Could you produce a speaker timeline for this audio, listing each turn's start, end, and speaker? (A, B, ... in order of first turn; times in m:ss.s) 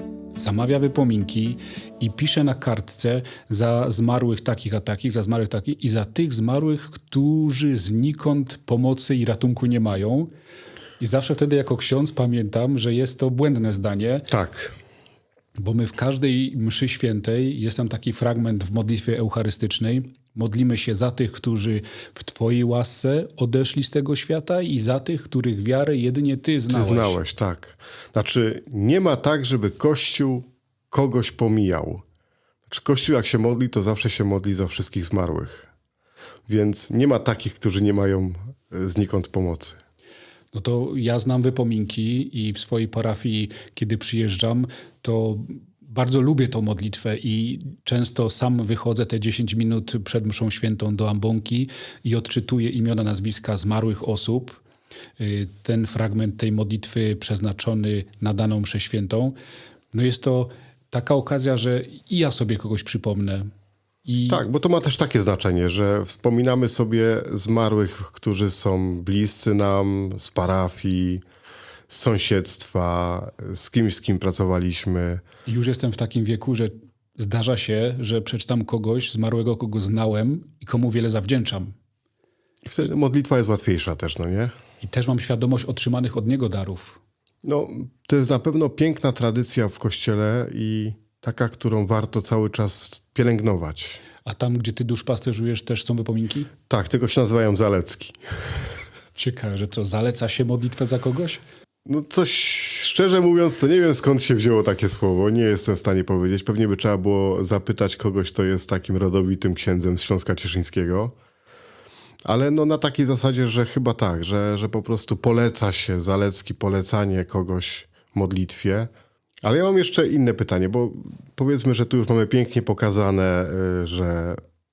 0:00.4-0:10.3 A
0:11.0-0:14.3 A
0:14.3-0:14.8 B
0:15.6-0:27.2 A
0:26.7-0:32.0 B
0:32.7-0:35.7 B
0:36.5-0:39.8 B
0:40.5-0:54.6 A
0:55.2-0:59.4 A
0:59.9-1:03.5 A
1:04.0-1:04.4 A
1:04.3-1:11.2 B
1:11.9-1:15.2 B
1:15.5-1:21.7 A
1:22.6-1:24.5 B
1:24.8-1:27.0 A
1:27.4-1:34.0 B
1:34.2-1:36.5 A
1:36.7-1:38.2 B
1:39.2-1:41.4 A
1:41.9-1:51.2 B
1:52.2-1:58.9 B
1:59.4-2:04.4 B